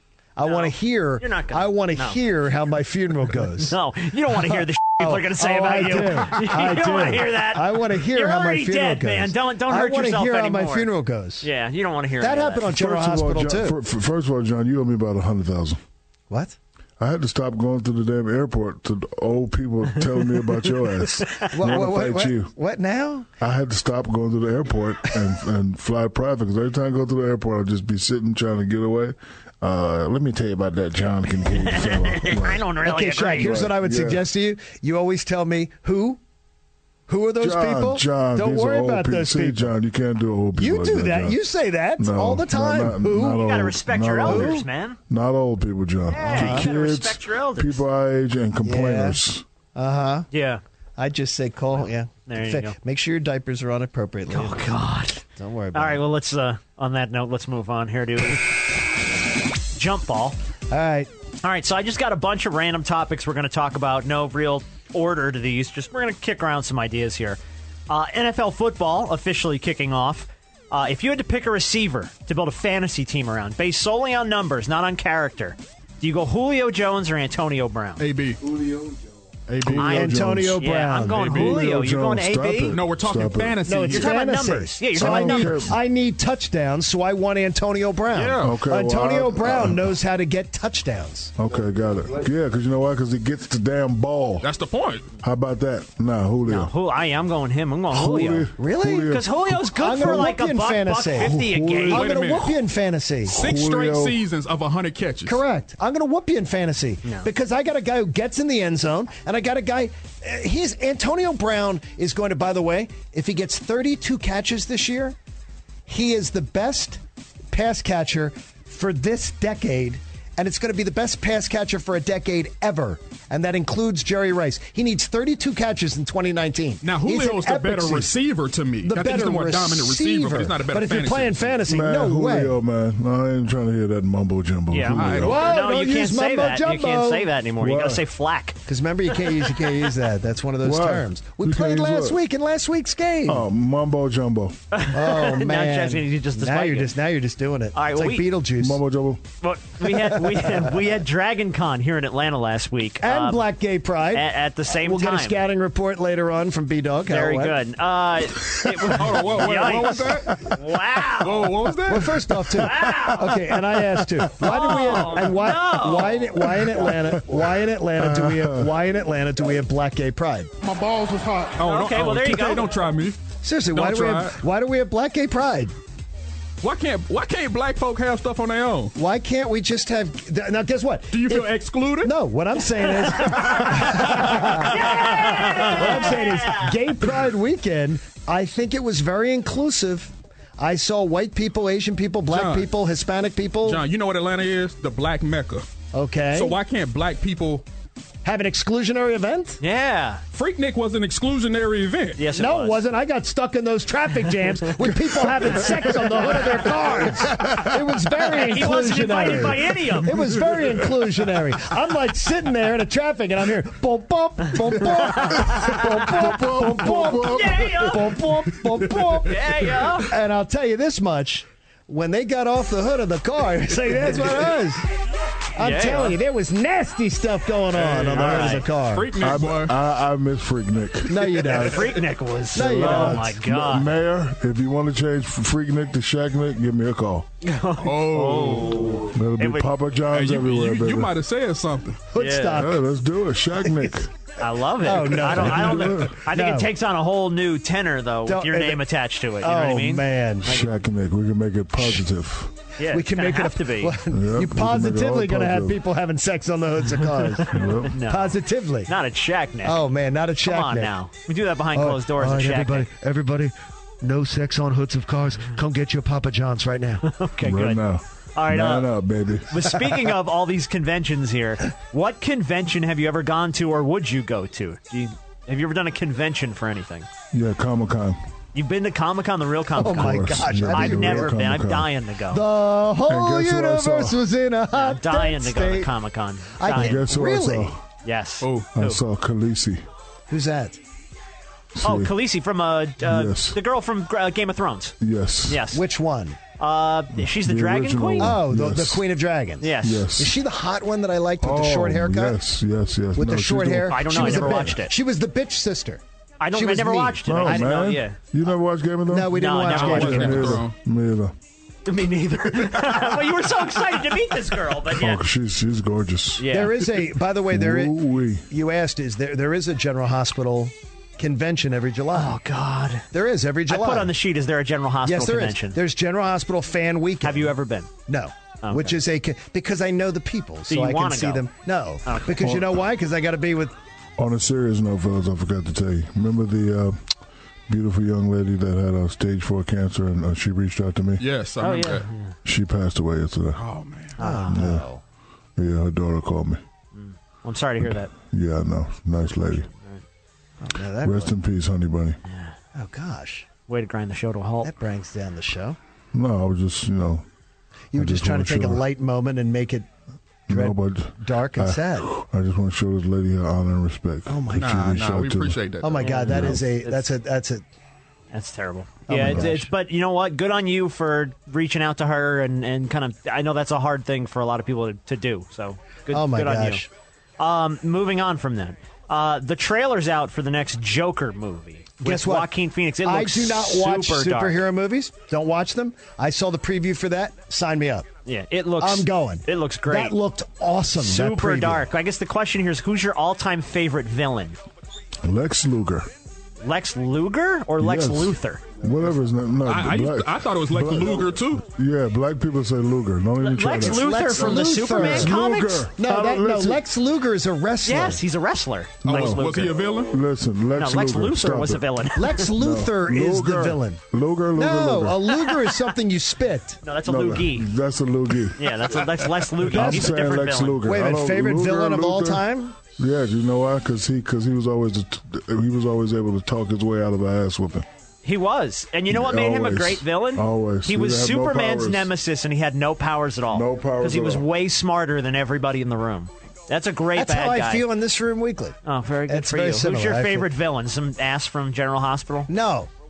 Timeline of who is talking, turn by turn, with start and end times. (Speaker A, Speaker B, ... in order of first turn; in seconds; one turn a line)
Speaker A: 0.3-3.8
Speaker B: 0.4-2.2
Speaker B: 3.7-10.9
Speaker A: 4.3-11.5
Speaker B: 11.4-12.7
Speaker A: 12.2-13.8
Speaker C: 12.7-15.8
Speaker A: 16.3-16.6
Speaker C: 17.0-22.5
Speaker A: 21.5-23.3
Speaker C: 23.4-32.7
Speaker B: 31.5-33.7
Speaker A: 32.8-36.2
Speaker C: 33.4-34.2
Speaker A: 37.1-39.7
Speaker C: 37.4-41.4
Speaker A: 40.5-43.4
Speaker C: 42.0-49.4
Speaker B: 43.3-45.0
Speaker A: 44.2-44.6
Speaker B: 46.1-47.8
Speaker A: 46.2-46.7
Speaker A: 48.6-49.2
Speaker A: 49.7-50.3
Speaker B: 50.3-50.6
Speaker A: 51.0-56.0
Speaker B: 52.2-52.8
Speaker B: 54.3-55.2
Speaker B: 55.7-58.6
Speaker B: 59.7-60.4
Speaker A: 60.7-61.1
Speaker B: 61.4-78.0
Speaker D: 78.0-78.4
Speaker D: 79.5-79.9
Speaker C: 79.6-80.6
Speaker B: 79.8-82.8
Speaker A: 79.8-81.5
Speaker D: 81.1-81.6
Speaker C: 81.2-83.7
Speaker D: 82.7-84.1
Speaker A: 83.6-91.3
Speaker B: 83.9-85.7
Speaker C: 84.9-85.8
Speaker D: 88.1-88.5
Speaker C: 88.4-90.0
Speaker C: 91.4-94.5
Speaker D: 94.4-95.0
Speaker C: 95.2-96.7
Speaker B: 96.5-102.0
Speaker C: 97.9-99.6
Speaker A: 98.6-103.3
Speaker C: 101.2-102.0
Speaker D: 101.9-102.6
Speaker C: 103.3-104.2
Speaker D: 103.3-105.4
Speaker A: 105.2-115.2
Speaker A: 115.9-117.0
Speaker A: 117.5-128.1
Speaker D: 126.8-131.6
Speaker A: 128.8-132.6
Speaker C: 131.7-135.4
Speaker B: 134.7-138.6
Speaker D: 134.9-135.5
Speaker A: 135.2-137.3
Speaker C: 137.6-138.0
Speaker A: 138.7-143.4
Speaker C: 140.6-142.2
Speaker C: 143.2-144.6
Speaker B: 144.7-146.9
Speaker A: 144.9-148.8
Speaker B: 147.7-148.3
Speaker C: 148.6-149.2
Speaker B: 149.4-153.4
Speaker A: 149.8-150.7
Speaker A: 153.0-157.6
Speaker B: 154.1-155.4
Speaker B: 157.1-161.5
Speaker D: 158.9-160.4
Speaker D: 161.2-162.3
Speaker A: 161.9-170.5
Speaker C: 162.1-163.1
Speaker B: 162.6-163.4
Speaker C: 163.7-164.0
Speaker B: 164.4-166.3
Speaker C: 166.5-168.7
Speaker D: 170.6-173.2
Speaker B: 171.6-172.7
Speaker A: 173.4-175.7
Speaker D: 173.7-174.4
Speaker D: 176.6-178.9
Speaker A: 178.9-181.5
Speaker D: 181.1-182.1
Speaker A: 182.0-193.8
Speaker B: 184.3-186.8
Speaker D: 192.3-192.7
Speaker D: 193.6-195.7
Speaker A: 195.9-196.6
Speaker D: 196.3-197.6
Speaker A: 198.2-199.6
Speaker B: 199.6-200.2
Speaker D: 200.3-202.2
Speaker B: 202.2-202.8
Speaker A: 202.3-219.4
Speaker B: 205.9-206.3
Speaker C: 207.2-208.0
Speaker B: 208.5-210.1
Speaker C: 210.1-211.1
Speaker B: 215.2-215.8
Speaker C: 215.2-219.2
Speaker B: 216.8-218.1
Speaker B: 219.2-220.1
Speaker A: 220.0-224.9
Speaker A: 225.6-229.1
Speaker B: 225.6-226.2
Speaker D: 227.7-229.7
Speaker B: 228.1-228.7
Speaker C: 229.2-231.7
Speaker A: 231.1-233.3
Speaker B: 231.5-233.9
Speaker C: 232.5-237.3
Speaker B: 237.4-239.7
Speaker D: 237.8-238.9
Speaker C: 239.1-241.1
Speaker D: 240.1-242.0
Speaker A: 242.1-242.8
Speaker B: 242.2-242.6
Speaker C: 242.5-244.1
Speaker B: 244.4-250.7
Speaker A: 244.8-246.7
Speaker C: 245.0-246.2
Speaker A: 248.2-248.8
Speaker A: 249.4-250.6
Speaker C: 250.4-252.6
Speaker B: 252.8-253.9
Speaker A: 252.9-258.9
Speaker C: 254.1-255.8
Speaker C: 257.5-258.0
Speaker B: 257.7-259.8
Speaker A: 259.6-260.9
Speaker B: 260.4-262.9
Speaker A: 261.7-267.0
Speaker B: 267.0-267.8
Speaker C: 267.4-269.7
Speaker B: 268.4-268.9
Speaker B: 269.5-277.1
Speaker C: 277.3-278.2
Speaker B: 278.5-282.4
Speaker A: 279.7-281.4
Speaker C: 279.8-281.9
Speaker A: 282.3-285.9
Speaker C: 283.1-284.2
Speaker B: 284.7-287.0
Speaker A: 286.6-287.7
Speaker C: 286.7-287.8
Speaker B: 288.0-289.0
Speaker D: 288.4-288.7
Speaker C: 288.7-289.8
Speaker A: 290.3-290.8
Speaker C: 291.7-292.1
Speaker B: 291.8-294.9
Speaker C: 293.0-293.6
Speaker C: 295.0-295.6
Speaker B: 295.5-295.8
Speaker A: 295.7-296.4
Speaker B: 296.6-298.4
Speaker C: 297.2-299.0
Speaker A: 298.2-302.4
Speaker B: 299.6-300.1
Speaker C: 299.8-300.3
Speaker C: 301.4-304.8
Speaker A: 303.1-306.0
Speaker B: 303.9-304.9
Speaker B: 306.4-308.2
Speaker A: 306.5-307.8
Speaker C: 307.2-311.3
Speaker A: 309.1-310.6
Speaker B: 309.3-310.5
Speaker D: 309.7-310.7
Speaker B: 311.9-315.2
Speaker C: 314.8-318.4
Speaker B: 316.4-316.7
Speaker A: 316.5-317.9
Speaker A: 318.5-322.4
Speaker B: 322.1-323.1
Speaker A: 323.1-324.1
Speaker B: 323.7-325.8
Speaker A: 325.0-327.5
Speaker B: 327.2-327.9
Speaker A: 328.1-333.7
Speaker B: 328.6-328.9
Speaker B: 330.7-331.5
Speaker B: 332.1-332.3
Speaker C: 332.4-332.8
Speaker C: 334.2-337.0
Speaker C: 337.7-341.2
Speaker D: 341.2-342.1
Speaker B: 341.6-342.3
Speaker C: 342.4-343.6
Speaker D: 343.6-344.2
Speaker B: 344.2-344.6
Speaker A: 344.2-345.0
Speaker C: 344.4-344.9
Speaker C: 345.6-346.6
Speaker B: 346.9-348.1
Speaker C: 347.8-349.7
Speaker B: 349.6-350.0
Speaker A: 350.6-351.3
Speaker C: 351.0-352.2
Speaker B: 352.3-352.5
Speaker A: 352.7-353.5
Speaker B: 353.7-354.7
Speaker A: 354.6-355.8
Speaker C: 356.1-357.2
Speaker A: 357.9-359.9
Speaker C: 357.9-358.8
Speaker C: 360.5-365.6
Speaker A: 360.5-362.1
Speaker A: 364.3-364.8
Speaker D: 364.5-366.2
Speaker A: 365.8-367.6
Speaker B: 366.0-367.1
Speaker C: 366.3-366.6
Speaker B: 368.3-376.8
Speaker A: 369.1-369.7
Speaker C: 369.1-369.5
Speaker A: 376.1-376.9
Speaker B: 377.4-384.6
Speaker A: 382.0-382.5
Speaker A: 383.0-388.1
Speaker B: 388.2-390.1
Speaker A: 388.8-391.9
Speaker B: 391.0-394.6
Speaker C: 395.2-396.1
Speaker B: 396.6-398.6
Speaker C: 397.8-406.8
Speaker D: 399.6-401.6
Speaker B: 403.4-405.9
Speaker A: 403.8-405.4
Speaker A: 406.0-408.2
Speaker B: 407.8-409.8
Speaker C: 409.0-409.4
Speaker D: 409.0-410.1
Speaker C: 410.1-411.8
Speaker B: 410.8-412.5
Speaker A: 412.1-414.0
Speaker C: 412.5-415.4
Speaker A: 414.5-416.8
Speaker B: 416.8-417.7
Speaker C: 417.0-418.9
Speaker B: 418.6-420.8
Speaker C: 419.6-422.4
Speaker A: 419.6-420.1
Speaker A: 420.8-422.8
Speaker C: 422.9-427.9
Speaker B: 428.2-437.9
Speaker C: 429.1-432.1
Speaker C: 433.5-434.4
Speaker A: 437.1-438.8
Speaker B: 438.8-442.5
Speaker A: 439.3-440.5
Speaker A: 442.5-442.9